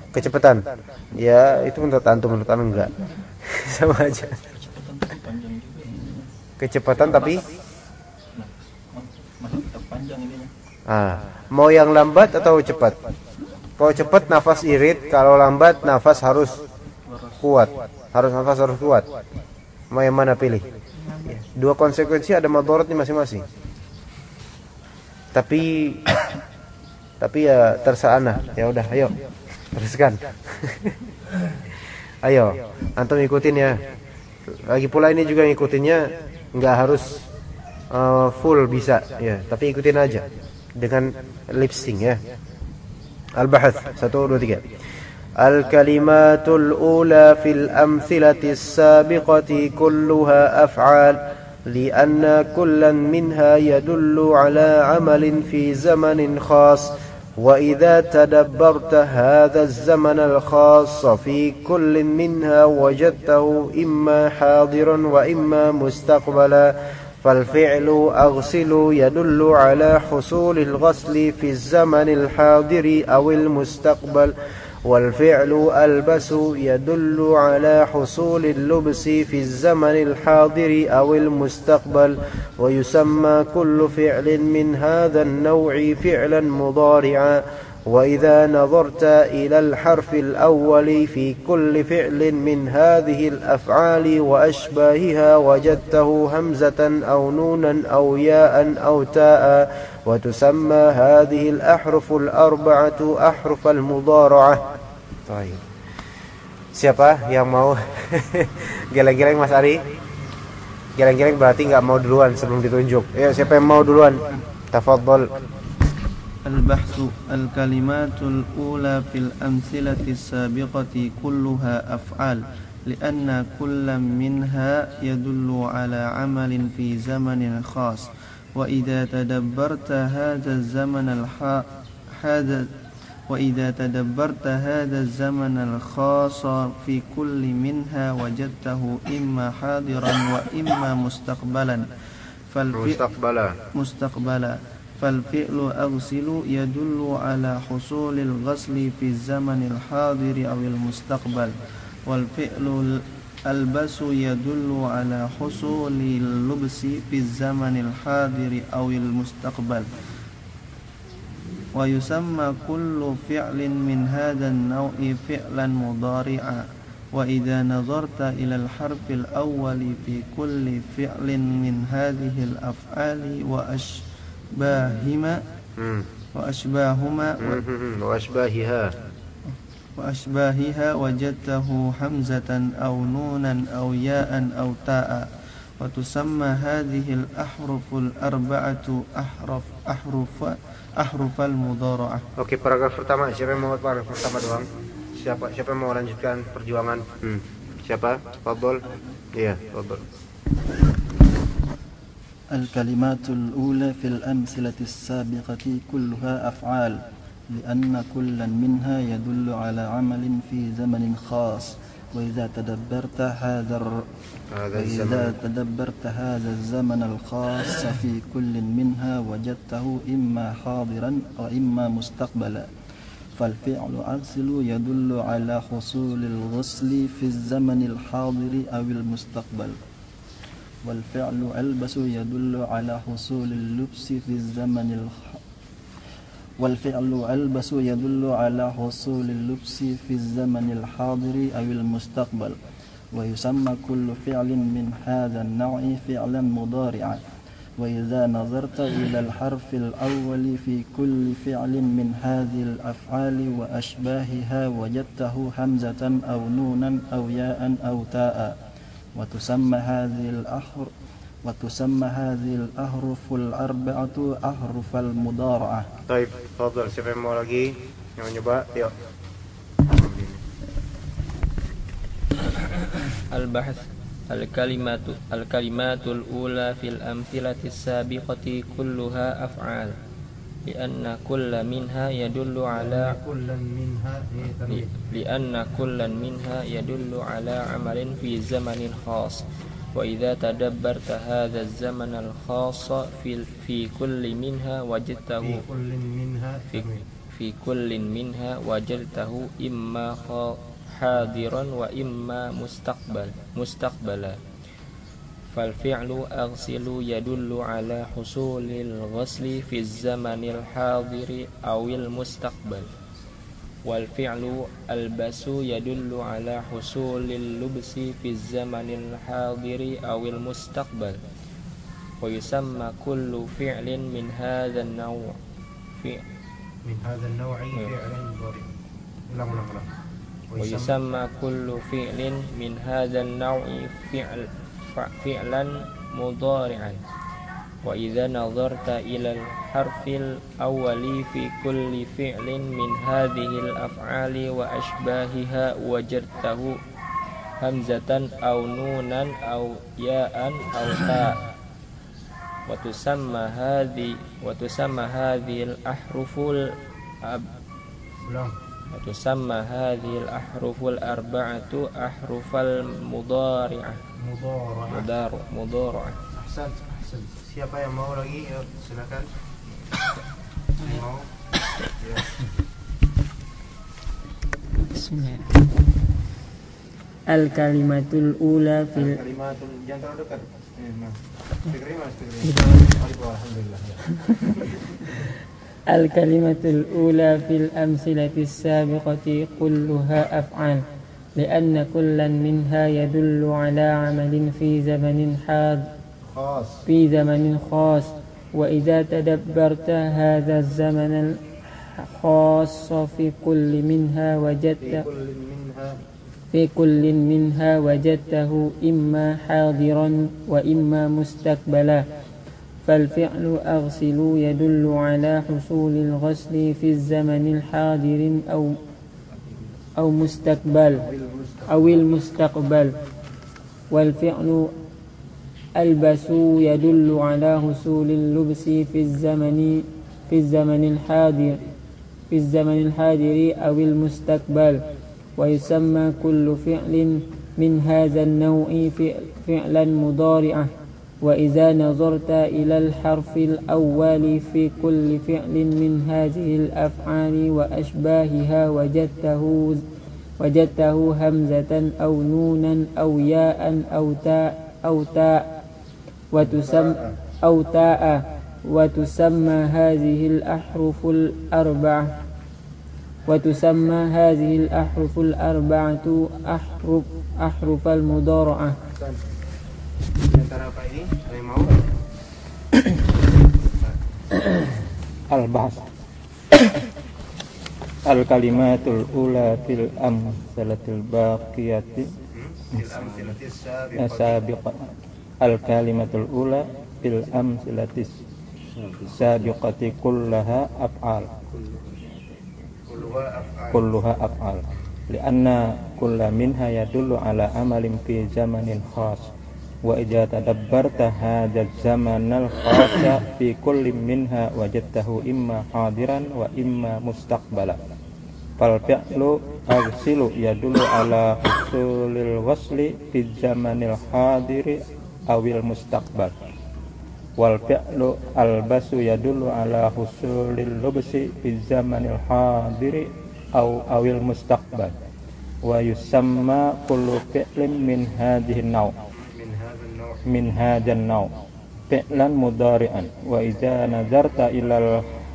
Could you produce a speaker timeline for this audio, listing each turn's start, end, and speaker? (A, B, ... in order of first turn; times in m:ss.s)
0:00.1-0:04.4 A
0:04.5-0:06.2 B
0:06.6-0:07.4 A
0:07.0-0:07.4 B
0:08.4-0:10.5 B
0:10.9-0:13.0 A
0:13.8-0:16.6 A
0:17.1-0:17.4 B
0:17.4-0:19.1 A
0:19.9-0:20.7 A
0:21.3-0:23.4 A
0:25.3-0:26.0 A
0:27.2-0:29.2 A
0:29.7-0:31.0 A
0:32.2-0:33.8 A
0:34.5-0:37.2 A
0:37.9-0:42.2 A
0:43.4-0:44.7 A
0:45.4-1:14.3 A
1:14.8-1:44.7 A
1:45.2-1:45.6 A
1:46.7-1:49.8 A
1:51.0-1:55.3 A
1:56.4-2:12.7 C
2:13.3-2:21.9 C
2:22.5-2:23.0 C
2:22.7-2:23.6 A
2:23.8-2:39.9 C
2:41.8-2:54.0 C
2:54.5-2:55.4 C
2:55.8-2:56.1 A
2:56.4-2:57.6 C
2:57.4-2:58.9 A
3:00.0-3:12.2 C
3:12.4-3:18.8 A
3:19.3-3:20.0 A
3:22.5-3:27.0 B
3:27.5-3:34.1 B
3:34.5-3:35.4 A
3:34.7-3:42.7 B
3:43.4-3:49.8 B
3:50.8-3:55.4 B
3:56.6-4:02.6 B
4:03.1-4:07.2 B
4:07.8-4:18.6 B
4:19.2-4:20.9 B
4:21.4-4:25.9 B
4:26.1-4:28.9 A
4:29.8-4:30.4 A
4:33.1-4:39.9 D
4:40.6-4:43.2 D
4:43.0-4:44.9 A
4:44.6-4:49.4 D
4:50.0-4:55.7 D
4:55.5-4:57.0 A
4:56.7-5:04.4 D
5:05.5-5:12.9 D
5:13.9-5:21.2 D
5:22.2-5:25.4 D
5:26.8-5:28.6 A
5:29.3-5:29.9 A
5:30.5-5:30.9 A
5:30.6-5:37.0 D
5:37.8-5:46.8 D
5:47.6-5:51.4 D
5:52.7-5:56.7 D
5:58.3-5:58.5 A
5:58.9-6:04.0 D
6:04.2-6:05.0 A
6:04.9-6:06.2 D
6:06.3-6:09.3 A
6:10.8-6:11.3 A
6:12.0-6:12.4 A
6:14.9-6:15.5 E
6:17.3-6:19.2 E
6:18.9-6:24.0 A
6:25.9-6:30.8 E
6:31.4-6:35.9 E
6:36.2-6:36.8 A
6:36.9-6:41.4 E
6:42.0-6:45.0 E
6:44.8-6:46.0 A
6:46.5-6:52.0 E
6:52.8-6:58.7 E
7:00.0-7:01.0 E
7:01.1-7:01.7 A
7:01.7-7:02.9 E
7:03.9-7:04.7 E
7:05.8-7:11.6 E
7:12.3-7:14.8 E
7:15.4-7:20.7 E
7:21.2-7:29.8 E
7:30.4-7:35.5 E
7:36.3-7:42.1 E
7:36.6-7:36.9 A
7:43.2-7:48.8 E
7:48.9-7:49.2 A
7:50.2-7:51.8 A
7:55.3-7:55.8 F
7:58.0-8:02.1 F
8:02.3-8:04.4 A
8:03.9-8:04.9 F
8:05.4-8:08.2 F
8:08.8-8:09.4 A
8:09.1-8:11.3 F
8:12.9-8:13.9 A
8:13.7-8:19.3 F
8:19.8-8:27.8 F
8:28.6-8:36.3 F
8:37.4-8:44.9 F
8:45.6-8:48.9 F
8:49.3-8:50.2 A
8:50.3-8:51.3 F
8:51.9-8:55.0 F